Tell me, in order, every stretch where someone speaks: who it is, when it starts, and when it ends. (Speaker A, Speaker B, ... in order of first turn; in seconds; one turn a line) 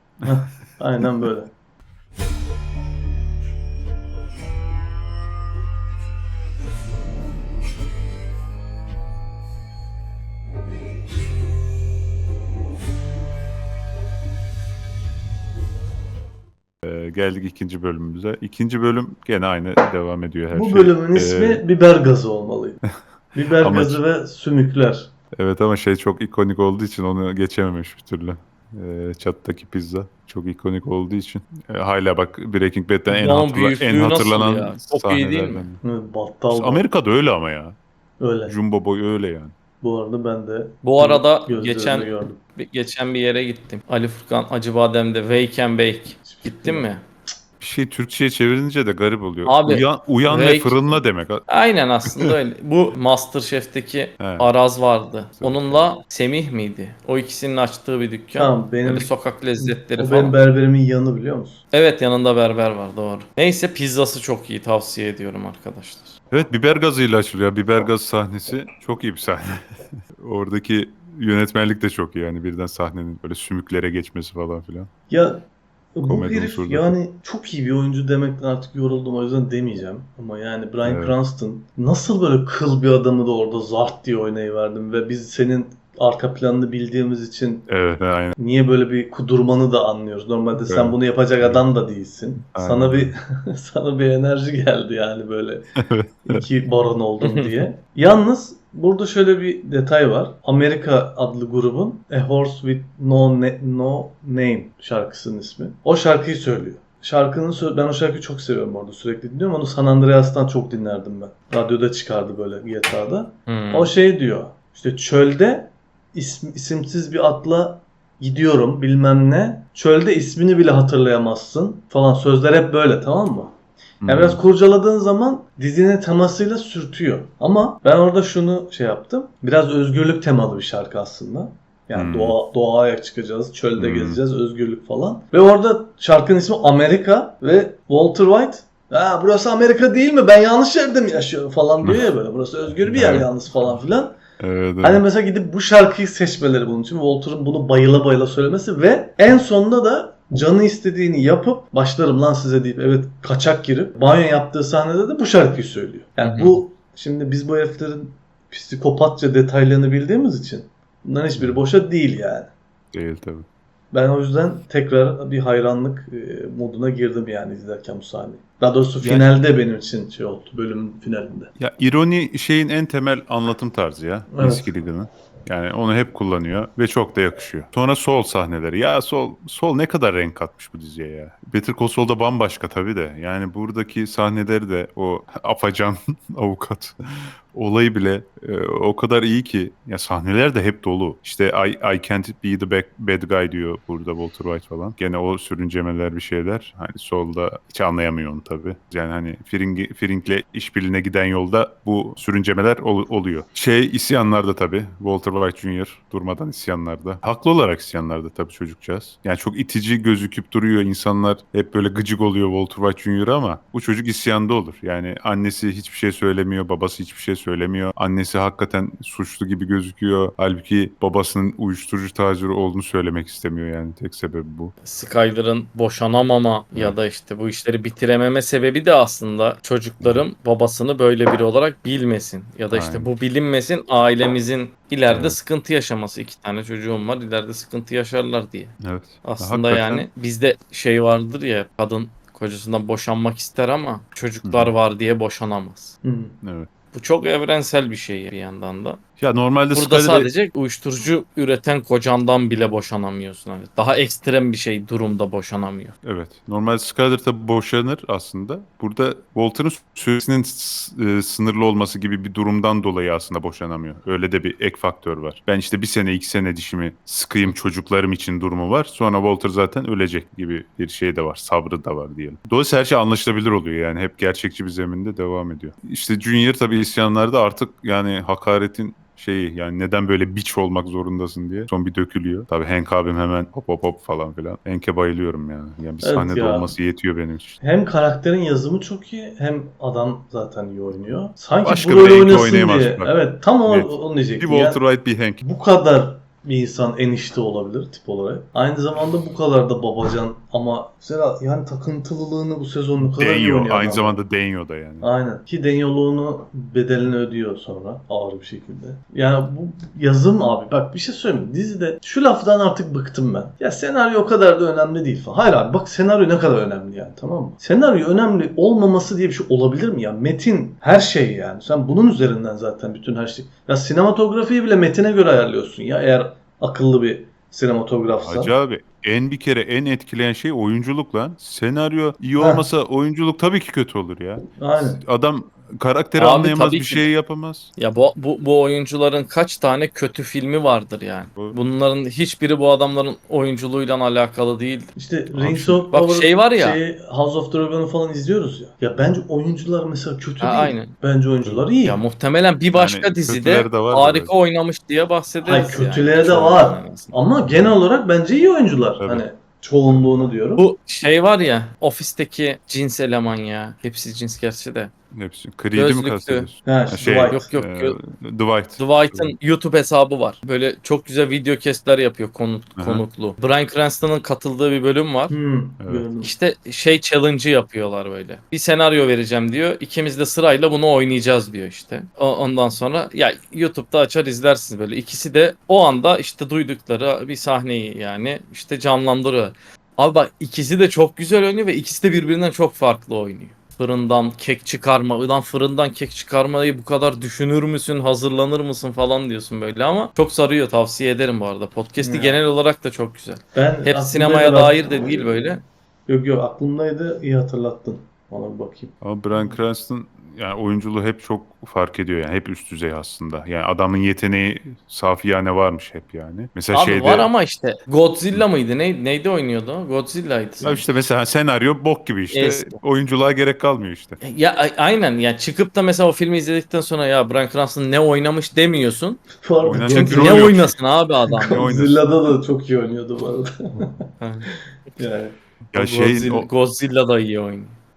Speaker A: 0.2-1.5
Speaker B: 16.8-21.6
Speaker A: 20.5-22.8
Speaker A: 23.3-25.1
Speaker B: 23.4-24.0
Speaker B: 25.3-35.8
Speaker C: 33.1-35.6
Speaker A: 35.8-36.8
Speaker B: 36.5-37.8
Speaker A: 38.2-38.5
Speaker B: 38.4-39.5
Speaker A: 39.8-42.4
Speaker C: 40.8-47.0
Speaker A: 46.3-46.9
Speaker B: 47.6-51.5
Speaker C: 49.5-50.9
Speaker C: 51.5-60.4
Speaker B: 54.2-54.5
Speaker B: 55.4-55.9
Speaker A: 58.4-61.6
Speaker C: 61.7-66.2
Speaker B: 66.3-74.9
Speaker A: 75.1-87.7
Speaker B: 76.0-77.0
Speaker B: 80.8-81.2
Speaker B: 87.7-88.4
Speaker A: 88.4-95.7
Speaker B: 90.5-91.7
Speaker B: 92.5-93.2
Speaker B: 95.8-96.5
Speaker A: 96.3-123.5
Speaker C: 97.2-97.6
Speaker C: 113.5-113.9
Speaker B: 124.0-124.4
Speaker A: 124.1-144.2
Speaker B: 131.9-132.4
Speaker B: 133.8-134.2
Speaker B: 141.8-142.1
Speaker B: 142.9-143.3
Speaker B: 144.4-145.1
Speaker A: 144.8-162.5
Speaker B: 156.2-156.6
Speaker B: 161.3-161.6
Speaker B: 162.9-163.5
Speaker A: 163.9-171.5
Speaker B: 169.0-169.4
Speaker B: 171.6-224.7
Speaker A: 174.3-174.7
Speaker C: 224.8-245.9
Speaker B: 232.7-233.1
Speaker B: 235.1-235.4
Speaker B: 238.8-240.1
Speaker B: 244.4-244.7
Speaker A: 246.0-246.4
Speaker B: 246.4-246.7
Speaker C: 246.9-249.0
Speaker B: 249.2-250.3
Speaker C: 249.7-255.9
Speaker B: 256.0-287.6
Speaker A: 286.0-286.7
Speaker A: 287.6-294.8
Speaker B: 291.6-295.4
Speaker A: 295.4-304.2
Speaker B: 303.0-305.1
Speaker A: 305.0-328.5
Speaker B: 328.0-337.7
Speaker A: 332.4-332.6
Speaker A: 334.5-335.0
Speaker C: 336.2-337.1
Speaker C: 337.8-344.9
Speaker A: 345.0-352.0
Speaker B: 345.3-345.9
Speaker C: 345.9-346.8
Speaker C: 350.4-350.9
Speaker C: 351.8-357.2
Speaker B: 352.7-354.3
Speaker A: 355.4-360.6
Speaker B: 357.5-357.7
Speaker B: 359.0-359.3
Speaker C: 360.6-364.9
Speaker B: 365.1-369.3
Speaker C: 365.7-366.5
Speaker A: 366.6-367.5
Speaker C: 367.3-368.0
Speaker C: 368.8-375.4
Speaker B: 372.8-373.0
Speaker A: 375.3-376.3
Speaker B: 375.8-376.1
Speaker C: 376.2-405.6
Speaker A: 402.0-402.4
Speaker A: 403.5-408.9
Speaker B: 409.0-417.3
Speaker C: 416.7-420.9
Speaker B: 420.6-424.2
Speaker C: 422.3-422.8
Speaker C: 424.2-429.3
Speaker A: 429.4-430.4
Speaker B: 429.6-430.8
Speaker C: 429.9-431.7
Speaker B: 431.4-432.0
Speaker A: 431.4-434.0
Speaker C: 434.2-434.5
Speaker A: 435.0-435.4
Speaker C: 435.7-437.8
Speaker B: 435.7-436.5